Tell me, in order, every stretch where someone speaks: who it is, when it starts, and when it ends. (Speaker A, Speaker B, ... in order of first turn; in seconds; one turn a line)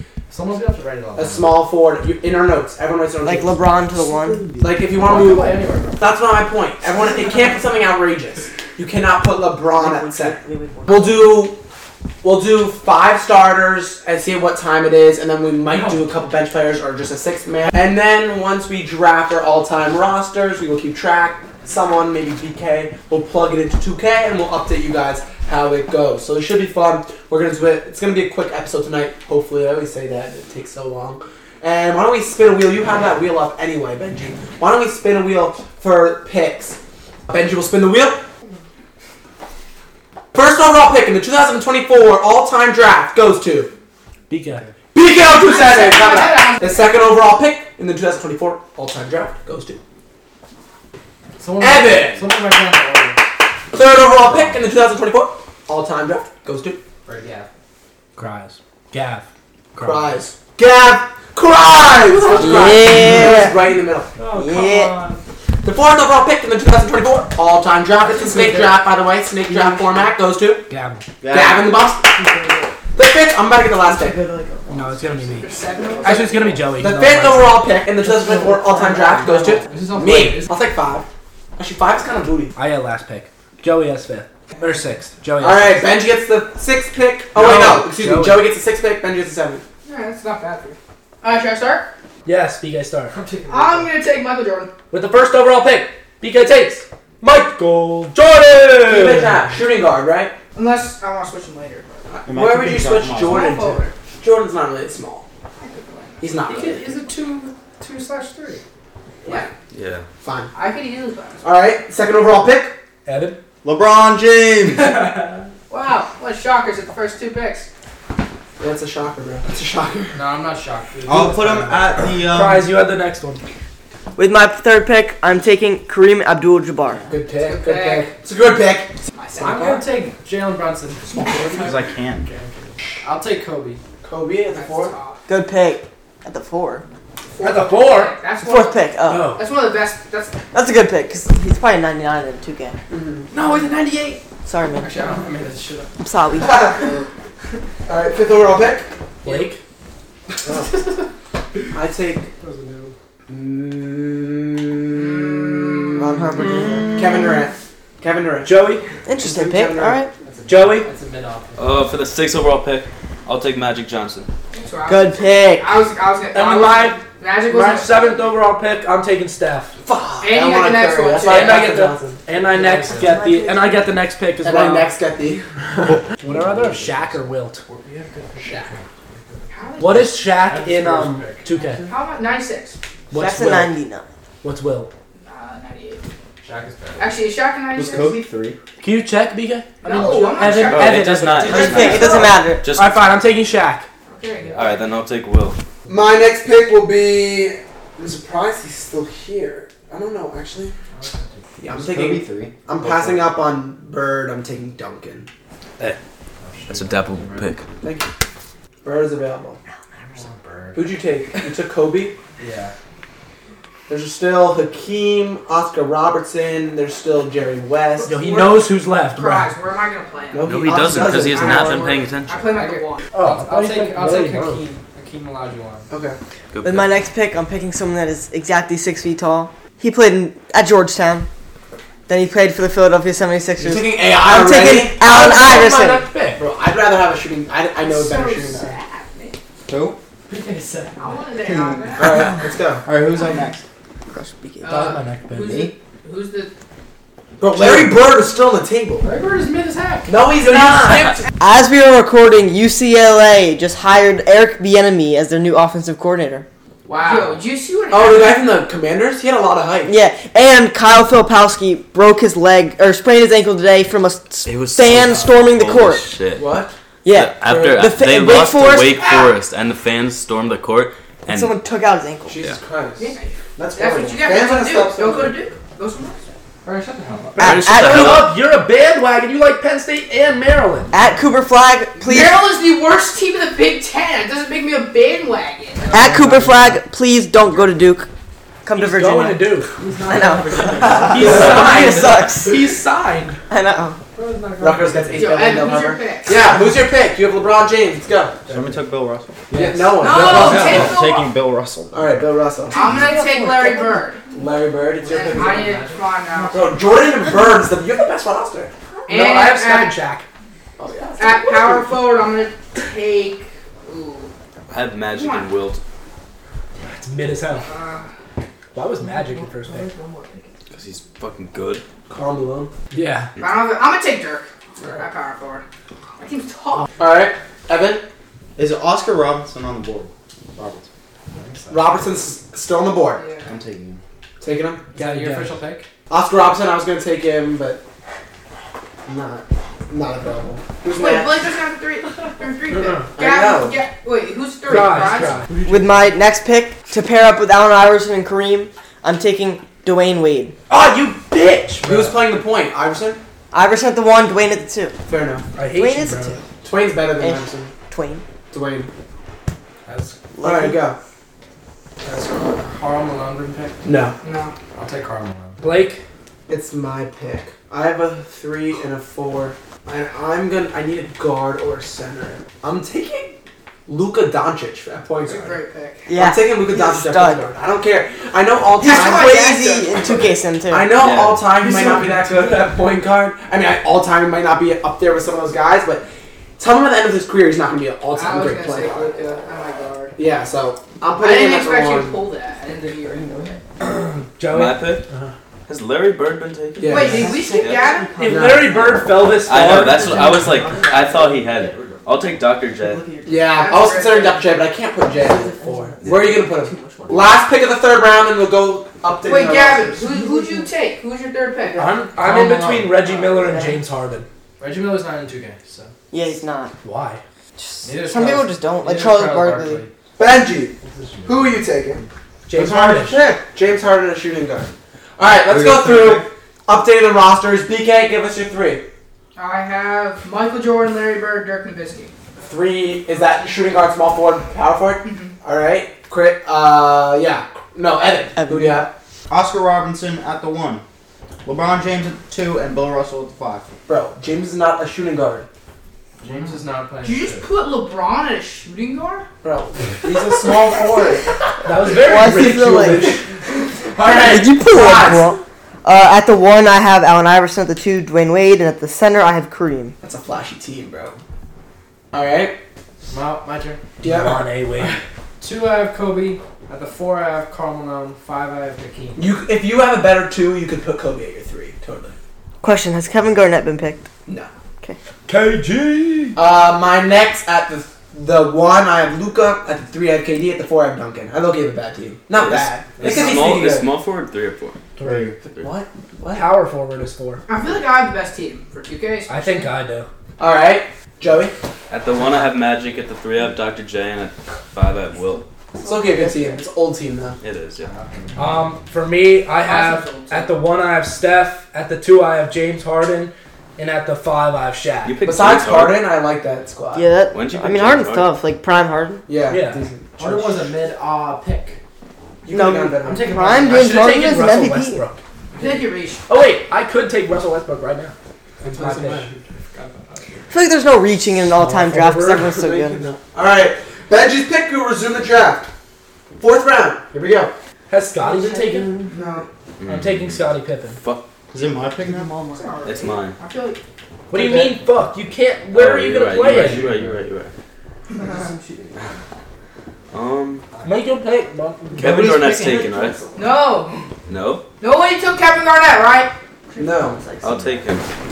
Speaker A: 0.3-1.6
Speaker B: 1.1-3.6
Speaker C: 3.2-4.6
Speaker D: 4.0-4.8
Speaker B: 4.6-11.6
Speaker A: 4.8-6.1
Speaker C: 9.7-11.4
Speaker B: 12.2-38.2
Speaker A: 15.7-16.1
Speaker B: 40.3-43.7
Speaker E: 44.3-44.6
Speaker B: 44.9-49.8
Speaker F: 45.3-47.0
Speaker A: 51.4-53.2
Speaker B: 51.6-52.3
Speaker B: 53.7-56.8
Speaker A: 57.0-57.5
Speaker E: 58.1-60.2
Speaker B: 59.8-64.1
Speaker A: 62.0-63.4
Speaker C: 62.4-63.5
Speaker A: 64.2-65.2
Speaker E: 64.2-64.8
Speaker C: 64.3-65.0
Speaker B: 65.6-70.7
Speaker A: 68.1-68.7
Speaker E: 68.2-68.7
Speaker E: 70.7-71.0
Speaker D: 71.2-71.8
Speaker B: 71.3-72.2
Speaker B: 72.9-74.2
Speaker C: 73.7-75.3
Speaker E: 74.7-75.5
Speaker F: 75.3-76.7
Speaker E: 76.0-77.7
Speaker B: 76.0-82.5
Speaker C: 78.2-79.6
Speaker A: 79.2-80.5
Speaker E: 82.5-85.8
Speaker B: 85.4-89.6
Speaker E: 87.3-88.5
Speaker F: 89.8-91.9
Speaker E: 92.2-93.1
Speaker A: 93.1-94.0
Speaker F: 93.5-94.7
Speaker E: 94.9-99.5
Speaker B: 98.8-100.3
Speaker F: 100.5-102.0
Speaker B: 102.1-105.2
Speaker D: 102.3-103.5
Speaker F: 103.2-103.9
Speaker F: 105.6-106.3
Speaker B: 106.2-106.9
Speaker A: 106.5-108.6
Speaker F: 109.2-109.5
Speaker G: 109.7-110.0
Speaker B: 110.2-110.5
Speaker F: 110.5-111.5
Speaker B: 111.4-112.8
Speaker E: 113.0-113.4
Speaker D: 113.6-115.1
Speaker A: 114.7-115.4
Speaker F: 115.7-117.7
Speaker B: 118.6-120.2
Speaker A: 120.1-122.1
Speaker D: 121.0-122.7
Speaker E: 122.0-123.4
Speaker C: 124.2-127.0
Speaker B: 127.1-129.8
Speaker F: 127.4-128.2
Speaker F: 129.1-129.6
Speaker A: 129.4-133.8
Speaker B: 131.2-131.7
Speaker D: 131.6-132.3
Speaker B: 134.0-134.9
Speaker F: 134.5-135.2
Speaker C: 135.3-136.8
Speaker F: 137.4-140.4
Speaker E: 137.4-138.1
Speaker C: 138.4-139.3
Speaker E: 139.1-139.5
Speaker C: 140.5-142.8
Speaker B: 142.9-143.3
Speaker A: 143.3-144.2
Speaker C: 144.4-144.9
Speaker A: 144.8-145.9
Speaker C: 146.0-146.6
Speaker B: 146.4-147.0
Speaker B: 147.8-148.9
Speaker E: 149.2-149.6
Speaker B: 150.4-150.7
Speaker A: 150.5-151.0
Speaker B: 151.7-152.3
Speaker A: 152.4-152.9
Speaker B: 153.3-160.0
Speaker F: 154.9-156.1
Speaker C: 156.0-157.1
Speaker E: 158.4-158.8
Speaker C: 159.0-160.1
Speaker A: 160.2-161.9
Speaker E: 160.4-160.8
Speaker G: 161.6-164.3
Speaker F: 164.5-168.3
Speaker C: 164.8-165.8
Speaker E: 166.3-169.7
Speaker B: 169.8-172.2
Speaker F: 170.2-171.7
Speaker E: 171.2-174.9
Speaker A: 172.5-173.3
Speaker C: 173.0-173.8
Speaker B: 174.4-175.5
Speaker E: 175.8-177.6
Speaker A: 176.2-181.9
Speaker B: 178.4-178.7
Speaker F: 179.5-180.3
Speaker E: 179.8-181.8
Speaker F: 181.8-182.8
Speaker E: 183.1-183.7
Speaker C: 183.1-184.1
Speaker E: 184.4-184.9
Speaker F: 185.2-186.1
Speaker A: 186.4-187.3
Speaker F: 187.0-188.2
Speaker D: 187.7-188.6
Speaker E: 188.8-193.8
Speaker F: 189.8-192.4
Speaker A: 189.9-190.4
Speaker G: 190.6-193.0
Speaker C: 191.4-192.6
Speaker F: 194.1-194.8
Speaker A: 194.4-194.8
Speaker G: 194.5-195.6
Speaker B: 195.9-200.7
Speaker A: 200.9-201.4
Speaker B: 201.6-205.3
Speaker D: 201.7-202.5
Speaker A: 206.4-207.5
Speaker G: 206.7-207.6
Speaker B: 207.8-208.1
Speaker B: 208.8-209.6
Speaker A: 210.1-211.0
Speaker B: 210.7-212.2
Speaker A: 212.4-212.7
Speaker B: 213.9-218.1
Speaker F: 218.0-223.1
Speaker E: 218.1-219.5
Speaker B: 220.3-221.8
Speaker G: 220.4-222.3
Speaker C: 221.5-221.9
Speaker A: 222.3-225.9
Speaker E: 223.1-224.6
Speaker B: 225.9-226.2
Speaker G: 226.5-226.9
Speaker C: 226.6-231.3
Speaker C: 232.1-236.1
Speaker B: 233.6-235.1
Speaker E: 235.0-236.4
Speaker B: 236.3-238.8
Speaker F: 237.8-239.4
Speaker D: 239.7-240.0
Speaker A: 240.3-241.6
Speaker F: 241.0-242.3
Speaker D: 241.4-242.2
Speaker B: 241.9-242.9
Speaker D: 242.8-243.6
Speaker C: 244.1-244.9
Speaker F: 244.6-246.5
Speaker E: 244.7-245.7
Speaker D: 245.3-245.7
Speaker B: 247.4-249.1
Speaker D: 247.6-248.0
Speaker A: 249.0-250.2
Speaker B: 250.1-251.2
Speaker C: 251.4-256.4
Speaker A: 256.8-257.5
Speaker F: 257.0-258.5
Speaker B: 257.9-259.9
Speaker C: 259.9-266.0
Speaker G: 264.4-266.5
Speaker B: 266.3-266.8
Speaker C: 267.0-269.1
Speaker G: 267.1-271.6
Speaker B: 267.4-267.9
Speaker C: 271.3-272.4
Speaker B: 272.2-275.4
Speaker F: 273.0-276.3
Speaker A: 276.6-277.5
Speaker C: 277.4-278.3
Speaker G: 277.4-278.3
Speaker E: 277.7-280.9
Speaker C: 280.9-282.4
Speaker F: 282.0-286.0
Speaker C: 285.9-288.1
Speaker E: 286.0-286.8
Speaker C: 288.6-292.8
Speaker E: 288.7-293.4
Speaker A: 289.8-291.2
Speaker B: 291.0-292.0
Speaker C: 293.5-294.0
Speaker A: 294.1-295.8
Speaker B: 294.6-298.4
Speaker F: 295.2-296.4
Speaker D: 298.5-299.4
Speaker E: 299.5-300.9
Speaker B: 299.5-301.0
Speaker F: 300.0-301.3
Speaker D: 300.2-302.3
Speaker B: 301.9-302.9
Speaker F: 302.7-304.3
Speaker C: 303.0-304.0
Speaker B: 304.3-305.6
Speaker A: 305.0-306.5
Speaker F: 305.1-306.6
Speaker B: 306.5-308.7
Speaker F: 309.1-310.0
Speaker E: 309.1-310.2
Speaker B: 310.8-312.1
Speaker F: 311.2-314.3
Speaker G: 314.7-315.8
Speaker F: 315.1-315.5
Speaker E: 316.8-317.7
Speaker F: 317.6-318.1
Speaker E: 318.7-319.9
Speaker C: 319.7-320.4
Speaker G: 320.7-321.8
Speaker B: 322.1-322.7
Speaker E: 322.9-323.3
Speaker F: 323.4-325.6
Speaker B: 324.8-325.1
Speaker F: 326.2-326.9
Speaker B: 327.0-328.0
Speaker D: 328.6-330.9
Speaker A: 331.3-331.9
Speaker B: 331.7-333.2
Speaker F: 333.1-333.5
Speaker D: 333.4-334.0
Speaker B: 334.4-334.9
Speaker A: 334.9-335.9
Speaker E: 334.9-335.6
Speaker B: 336.1-337.8
Speaker B: 339.1-341.5
Speaker F: 340.9-345.4
Speaker E: 342.7-343.0
Speaker B: 343.1-343.8
Speaker E: 344.7-345.6
Speaker C: 345.6-350.5
Speaker E: 350.7-352.2
Speaker B: 351.8-353.2
Speaker C: 353.5-354.9
Speaker B: 355.1-355.5
Speaker E: 355.6-356.4
Speaker C: 355.7-356.4
Speaker B: 356.6-357.7
Speaker C: 357.2-358.2
Speaker B: 358.5-358.9
Speaker A: 359.9-360.2
Speaker C: 360.3-360.8
Speaker B: 360.4-361.0
Speaker A: 362.0-363.8
Speaker B: 363.8-364.2
Speaker F: 364.2-364.6
Speaker A: 364.7-365.6
Speaker E: 365.6-366.0
Speaker B: 366.5-373.4
Speaker B: 373.9-375.6
Speaker F: 375.2-376.1
Speaker C: 376.1-377.4
Speaker B: 376.1-386.1
Speaker C: 378.8-380.9
Speaker G: 380.9-381.5
Speaker E: 381.6-382.1
Speaker B: 386.6-389.1
Speaker F: 388.1-390.1
Speaker B: 390.2-392.2
Speaker F: 391.1-393.6
Speaker A: 392.7-393.2
Speaker E: 393.8-395.3
Speaker G: 394.5-395.1
Speaker G: 395.7-397.9
Speaker B: 396.8-397.4
Speaker F: 396.9-398.3
Speaker C: 396.9-402.0
Speaker E: 398.2-400.7
Speaker B: 398.2-398.9
Speaker G: 399.4-403.1
Speaker C: 402.7-403.4
Speaker B: 403.2-410.2
Speaker F: 403.4-404.6
Speaker C: 405.2-407.3
Speaker G: 406.0-406.4
Speaker F: 409.2-412.0
Speaker C: 410.1-410.7
Speaker E: 411.8-414.2
Speaker A: 412.1-413.0
Speaker C: 413.1-413.8
Speaker A: 414.6-415.9
Speaker C: 416.1-416.7
Speaker E: 416.8-417.2
Speaker C: 417.6-419.8
Speaker A: 417.8-419.9
Speaker B: 420.2-420.7
Speaker A: 420.8-421.7
Speaker B: 421.2-428.9
Speaker E: 422.5-423.2
Speaker D: 425.4-426.3
Speaker F: 429.4-432.1
Speaker B: 432.4-438.9
Speaker F: 435.0-435.4
Speaker C: 438.4-438.9
Speaker D: 439.3-440.8
Speaker D: 441.4-443.7
Speaker B: 443.9-445.5
Speaker A: 446.2-447.5
Speaker F: 447.0-449.2
Speaker B: 449.4-451.4
Speaker E: 451.6-453.2
Speaker B: 451.9-455.3
Speaker C: 451.9-453.1
Speaker C: 454.1-459.9
Speaker B: 460.0-461.2
Speaker B: 462.1-462.6
Speaker A: 463.1-463.8
Speaker B: 464.0-464.4
Speaker E: 464.0-465.0
Speaker A: 465.4-469.2
Speaker B: 469.1-472.1
Speaker C: 472.6-474.1
Speaker E: 475.3-476.4
Speaker B: 476.3-483.9
Speaker G: 482.3-484.8
Speaker E: 485.0-485.3
Speaker D: 485.0-485.4
Speaker B: 485.5-486.5
Speaker E: 486.3-487.4
Speaker F: 487.5-489.7
Speaker E: 489.3-490.1
Speaker B: 490.4-491.5
Speaker G: 491.9-495.5
Speaker B: 495.8-497.4
Speaker C: 495.8-496.2
Speaker G: 497.4-497.9
Speaker E: 498.4-505.1
Speaker F: 499.6-500.6
Speaker G: 505.0-506.0
Speaker B: 505.2-507.1
Speaker C: 506.9-509.2
Speaker G: 507.3-508.3
Speaker B: 509.3-510.7
Speaker E: 509.5-509.8
Speaker A: 510.2-511.8
Speaker B: 512.4-513.4
Speaker C: 512.5-515.0
Speaker A: 513.0-513.9
Speaker E: 513.5-515.2
Speaker A: 515.5-515.9
Speaker F: 515.6-516.2
Speaker E: 516.3-518.1
Speaker B: 518.6-519.4
Speaker E: 518.7-519.3
Speaker A: 519.7-520.5
Speaker C: 520.5-523.0
Speaker E: 521.5-522.5
Speaker B: 522.4-525.7
Speaker B: 526.4-527.5
Speaker E: 527.9-528.9
Speaker C: 528.2-529.1
Speaker B: 529.1-529.5
Speaker F: 529.2-529.4
Speaker G: 529.8-531.3
Speaker E: 529.8-531.0
Speaker D: 531.5-532.3
Speaker C: 531.9-532.8
Speaker F: 532.5-533.8
Speaker G: 532.8-533.4
Speaker E: 534.3-536.9
Speaker B: 534.3-534.8
Speaker G: 535.7-537.5
Speaker B: 536.5-537.1
Speaker F: 538.1-538.5
Speaker B: 538.5-538.9
Speaker G: 540.1-540.7
Speaker E: 540.8-542.4
Speaker G: 542.0-543.2
Speaker B: 542.0-543.4
Speaker F: 543.3-544.0
Speaker G: 544.3-544.6
Speaker F: 544.8-546.3
Speaker C: 546.7-547.6
Speaker B: 546.8-547.2
Speaker G: 547.4-548.0